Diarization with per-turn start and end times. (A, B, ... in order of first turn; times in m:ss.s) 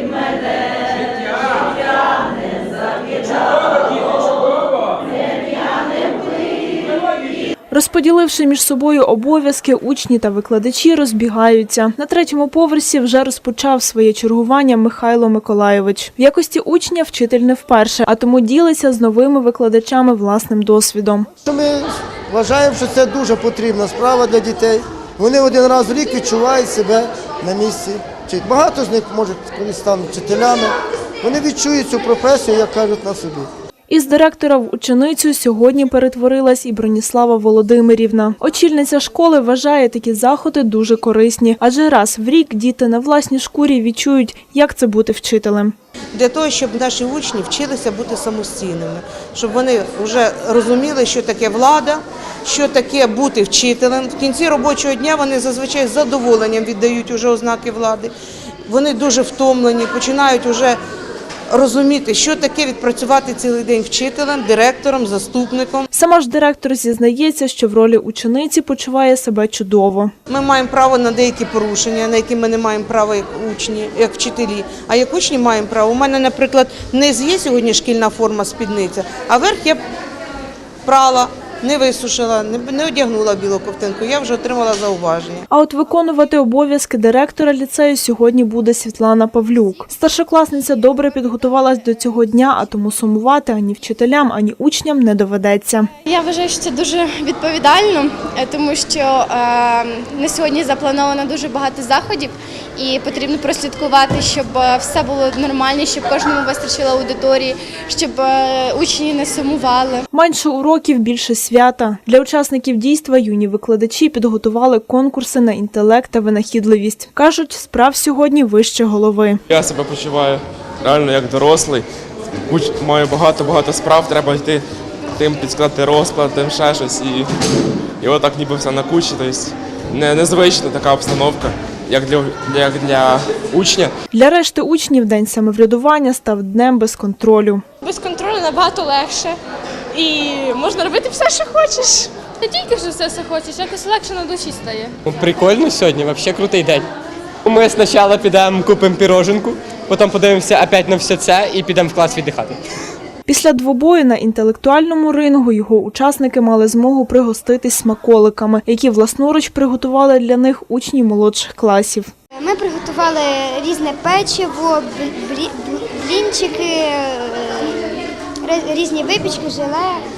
0:07.7-0:21.3 A
0:21.4-0:33.5 B
0:33.9-0:45.7 A
0:46.1-0:58.1 C
0:58.7-1:00.8 C
1:01.5-1:05.9 C
1:05.9-1:10.1 A
1:10.3-1:19.8 C
1:20.8-1:25.5 C
1:25.5-1:35.9 A
1:36.0-1:50.0 D
1:50.1-1:59.4 A
1:59.5-2:01.8 E
2:02.5-2:04.6 E
2:05.2-2:07.3 E
2:08.0-2:13.9 E
2:14.1-2:17.6 A
2:17.8-2:19.4 F
2:19.9-2:24.9 F
2:25.1-2:26.8 G
2:27.5-2:32.6 G
2:33.3-2:42.1 A
2:42.4-2:50.0 H